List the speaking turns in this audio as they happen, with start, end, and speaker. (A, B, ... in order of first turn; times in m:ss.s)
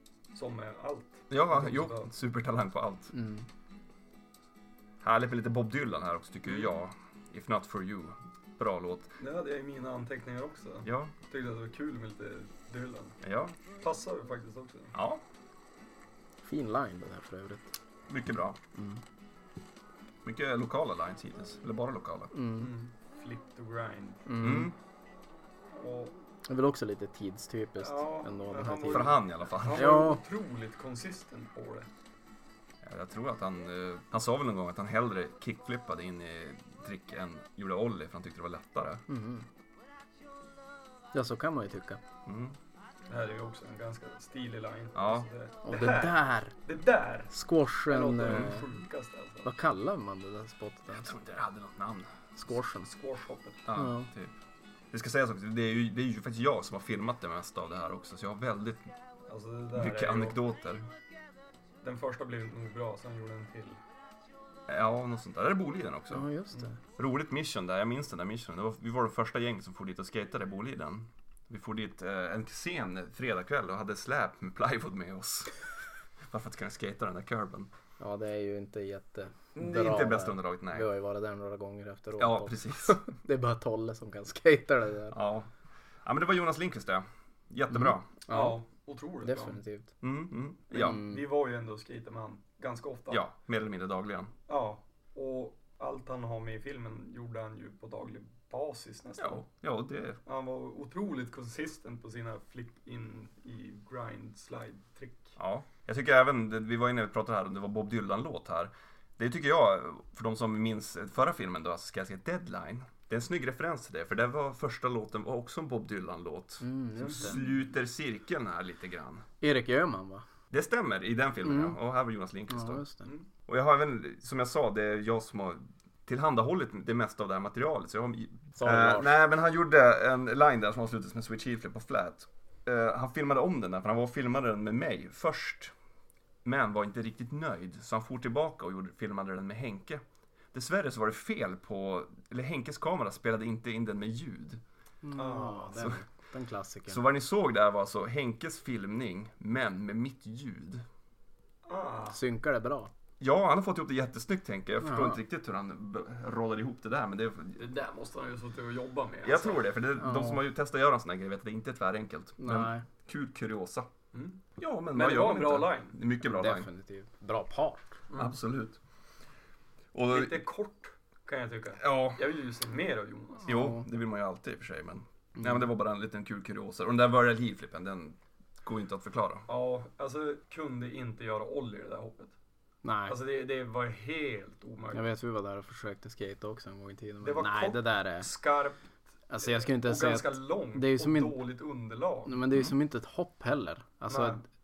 0:00.3-0:02.1 A
0:01.3-0:03.1 B
0:03.1-0:03.5 C
0:05.0-0:09.1 B
0:09.2-0:13.2 A
0:10.8-0:11.1 B
0:13.2-0:13.6 B
0:13.8-0:14.9 A
0:14.9-0:15.2 B
0:16.4-0:17.7 C
0:18.1-0:18.6 B
0:18.8-0:19.0 C
0:20.2-0:22.3 B
0:22.3-0:22.7 C
0:22.6-0:24.3 A
0:24.3-0:24.7 C
0:24.4-0:24.8 B
0:25.7-0:26.2 A
0:26.5-0:30.2 C
0:27.8-0:31.9 A
0:28.9-0:30.0 B
0:32.8-0:39.0 B
0:39.1-0:39.5 C
0:41.1-0:42.0 C
0:42.3-0:42.6 B
0:43.1-0:47.3 A
0:45.0-0:45.3 B
0:45.6-0:46.6 C
0:47.3-0:48.7 C
0:47.9-0:49.5 A
0:49.4-0:51.1 C
0:50.9-0:52.2 B
0:52.4-0:52.9 C
0:52.8-0:53.6 A
0:53.6-0:54.3 B
0:53.8-0:54.1 C
0:54.9-0:58.9 B
0:59.3-1:00.4 A
0:59.8-1:00.9 B
1:01.8-1:03.8 A
1:04.7-1:06.3 B
1:06.1-1:06.8 C
1:07.0-1:15.6 B
1:16.3-1:17.7 B
1:18.0-1:25.2 C
1:19.6-1:20.9 B
1:22.2-1:23.0 B
1:25.1-1:25.5 B
1:26.0-1:28.1 B
1:27.7-1:28.6 C
1:28.3-1:29.6 A
1:29.2-1:29.9 C
1:30.0-1:31.0 B
1:30.8-1:31.2 C
1:30.8-1:33.2 A
1:33.1-1:34.3 B
1:34.5-1:39.4 A
1:39.2-1:40.2 B
1:40.3-1:45.4 A
1:45.4-1:59.3 B
1:56.6-1:57.4 C
1:59.4-2:00.2 C
2:00.5-2:02.8 B
2:01.4-2:01.8 C
2:02.5-2:03.1 C
2:03.5-2:15.7 B
2:08.6-2:09.2 C
2:16.4-2:20.0 B
2:20.5-2:24.6 B
2:25.0-2:27.0 C
2:25.2-2:25.8 A
2:26.9-2:30.8 B
2:31.7-2:32.2 A
2:32.1-2:32.9 C
2:33.2-2:37.6 B
2:34.8-2:35.2 C
2:37.6-2:39.7 A
2:39.2-2:43.9 B
2:40.0-2:40.4 C
2:42.4-2:42.8 C
2:44.1-2:46.0 A
2:44.6-2:46.7 B
2:46.2-2:48.0 C
2:48.2-2:48.8 B
2:49.9-2:50.4 B
2:50.1-2:53.5 A
2:51.8-2:52.2 B
2:53.5-2:59.5 B
2:59.5-3:02.3 A
3:02.8-3:03.2 C
3:03.1-3:05.0 A
3:04.9-3:08.3 C
3:07.2-3:12.4 A
3:09.3-3:11.4 C
3:12.3-3:14.4 C
3:14.1-3:14.4 A